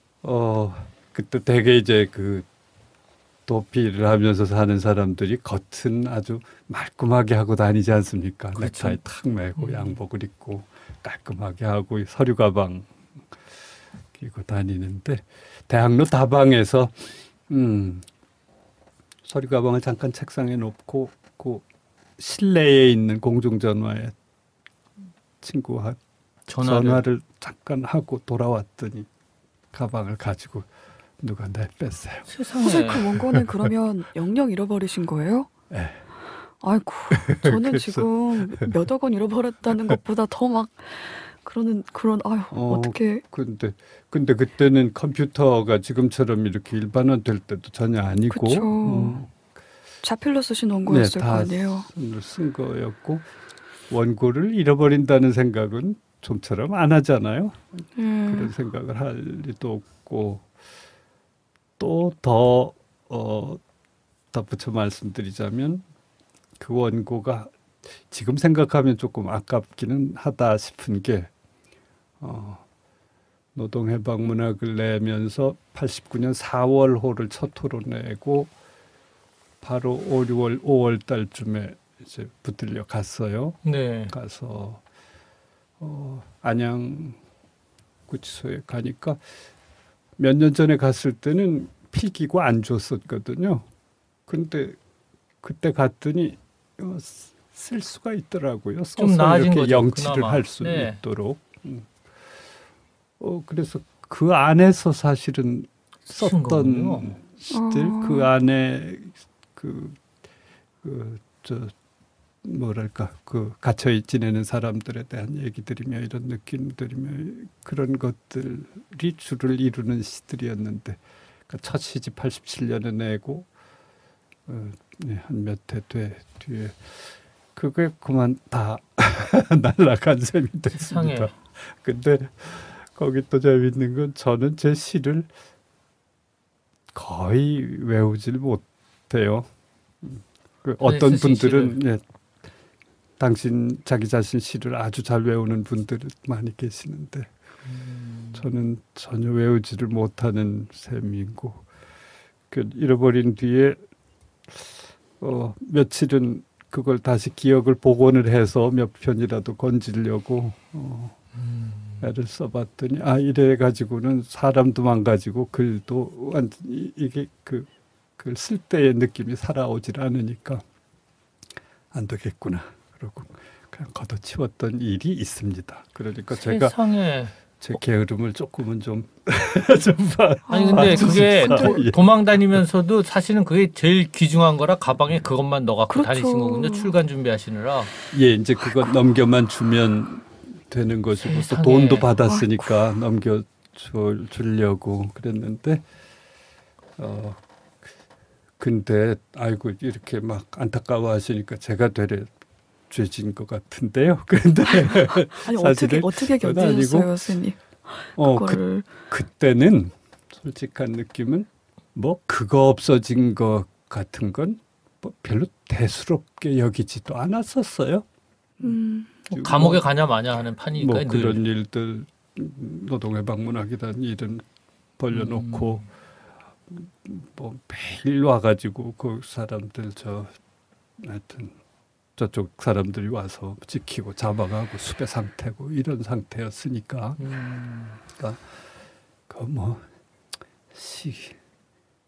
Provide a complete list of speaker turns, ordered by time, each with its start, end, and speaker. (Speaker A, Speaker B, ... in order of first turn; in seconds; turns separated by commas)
Speaker A: 0.2-2.5, Speaker A: 3.5-13.0, Speaker B: 8.6-9.0, Speaker B: 9.6-10.0, Speaker A: 14.1-18.1, Speaker A: 19.2-21.6, Speaker A: 22.2-24.1, Speaker A: 25.4-26.0, Speaker B: 26.5-27.0, Speaker A: 26.6-29.1, Speaker A: 29.7-32.3, Speaker B: 32.3-33.1, Speaker C: 32.6-35.5, Speaker A: 32.9-33.7, Speaker A: 35.7-36.0, Speaker C: 36.6-43.2, Speaker A: 37.1-38.7, Speaker A: 42.5-49.3, Speaker C: 48.3-49.2, Speaker C: 50.0-51.9, Speaker A: 50.9-53.3, Speaker A: 53.9-60.5, Speaker C: 58.0-58.5, Speaker A: 61.8-63.6, Speaker A: 64.3-65.8, Speaker A: 66.6-71.3, Speaker A: 72.2-72.6, Speaker A: 73.5-78.5, Speaker A: 79.6-84.8, Speaker B: 83.7-84.1, Speaker A: 85.8-87.2, Speaker A: 88.1-89.2, Speaker A: 90.2-93.7, Speaker A: 94.3-94.8, Speaker A: 95.4-102.0, Speaker B: 99.0-101.0, Speaker A: 103.2-110.0, Speaker B: 106.1-107.2, Speaker C: 107.5-108.3, Speaker A: 110.8-111.7, Speaker A: 112.4-123.5, Speaker A: 124.5-135.3, Speaker B: 130.8-131.3, Speaker A: 136.9-139.5, Speaker A: 140.0-142.0, Speaker B: 140.8-141.8, Speaker A: 143.2-147.3, Speaker B: 147.7-148.4, Speaker A: 148.3-151.7, Speaker A: 152.5-153.8, Speaker A: 154.5-161.2, Speaker B: 161.4-162.1, Speaker A: 162.0-170.6, Speaker A: 171.9-176.8, Speaker B: 176.3-177.3, Speaker A: 177.6-182.0, Speaker C: 180.5-181.9, Speaker B: 180.5-187.9, Speaker C: 185.9-186.9, Speaker A: 188.1-195.8, Speaker B: 191.2-192.1, Speaker C: 192.3-192.6, Speaker A: 197.0-197.4, Speaker A: 198.6-202.3, Speaker A: 202.9-207.2, Speaker C: 204.7-209.1, Speaker A: 208.2-218.1, Speaker C: 218.6-219.2, Speaker A: 219.3-219.9, Speaker B: 219.3-221.4, Speaker A: 220.7-224.4, Speaker A: 225.0-225.9, Speaker B: 225.1-225.8, Speaker A: 226.7-230.4, Speaker A: 231.0-231.6, Speaker A: 232.2-237.2, Speaker B: 237.2-238.0, Speaker A: 238.1-238.6, Speaker A: 239.3-239.9, Speaker A: 240.7-241.4